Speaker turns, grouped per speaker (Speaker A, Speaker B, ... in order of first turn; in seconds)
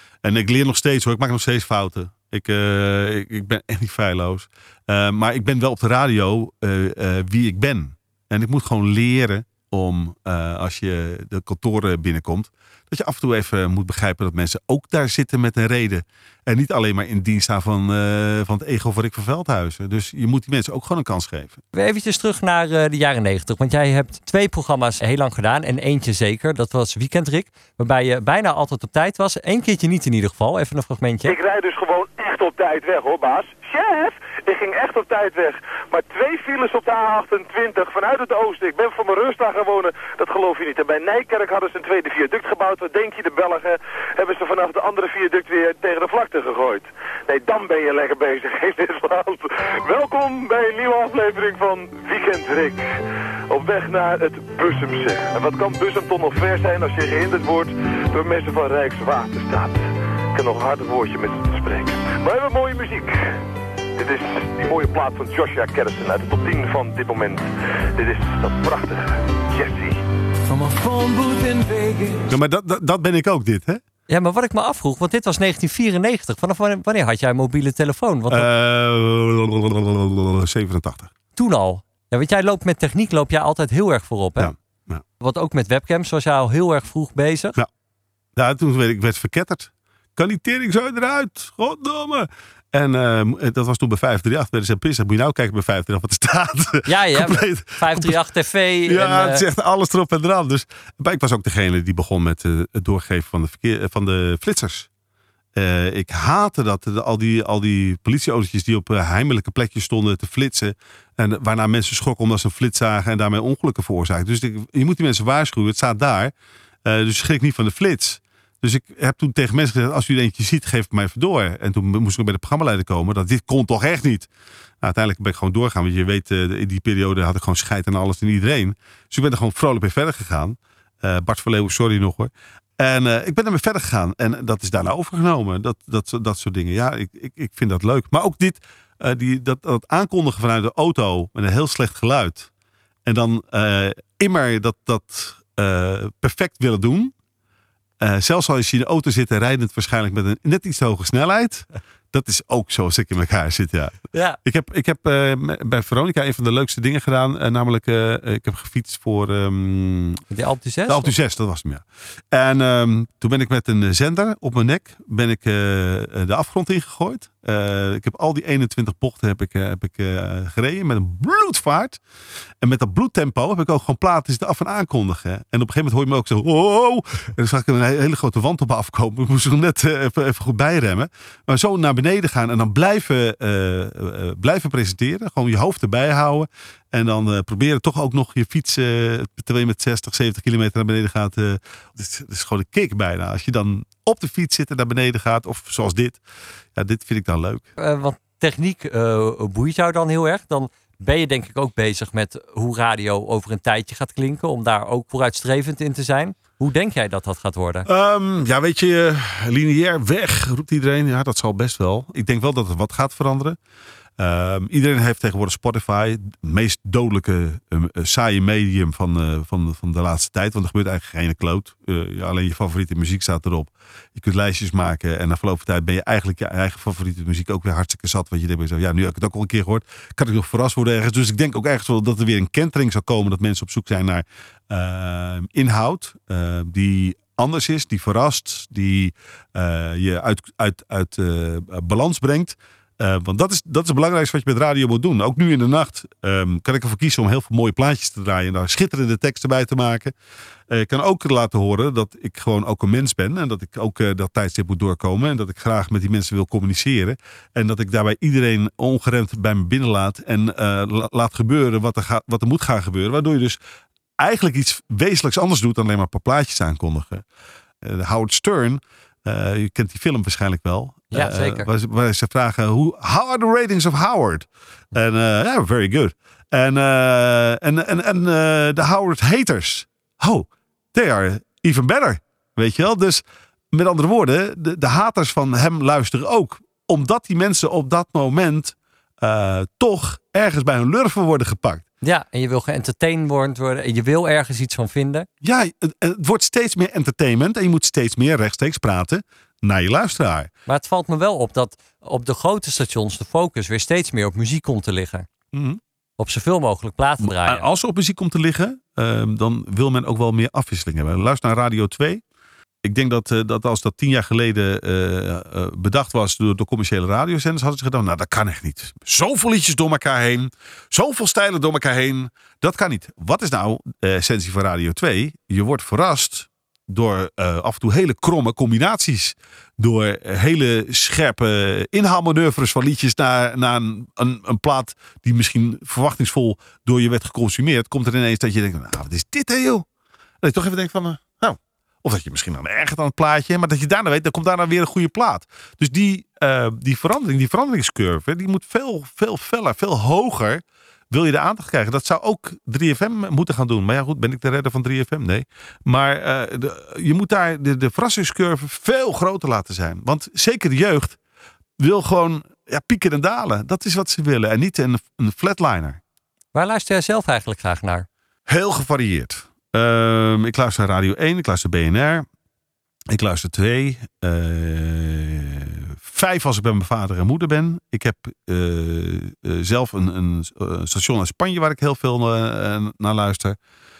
Speaker A: 0.2-21.6, 72.3-73.8, 78.3-81.1, 84.4-85.0, 88.3-98.2, 98.8-104.9, 105.5-116.3, 116.8-124.3, 124.8-142.5, 143.1-147.1, 148.0-160.2, 160.9-172.0, 172.6-196.2, 196.7-197.7, 207.8-213.6, 214.2-250.1, 250.7-263.6, 264.2-267.2, 267.8-291.8, 295.4-300.5, 305.5-305.8, 307.2-312.2, 312.8-339.9, 340.4-361.2, 361.8-366.0, 368.5-372.2, 373.1-383.6
Speaker B: 21.7-31.4, 74.1-78.5, 81.3-84.5, 85.2-87.6, 96.8-99.4, 154.1-154.4, 160.3-161.1, 197.8-207.9, 271.1-271.7, 292.0-295.3, 300.7-305.2, 306.2-307.6, 366.5-368.1
Speaker C: 31.2-52.8, 53.5-59.8, 60.3-63.2, 64.0-70.0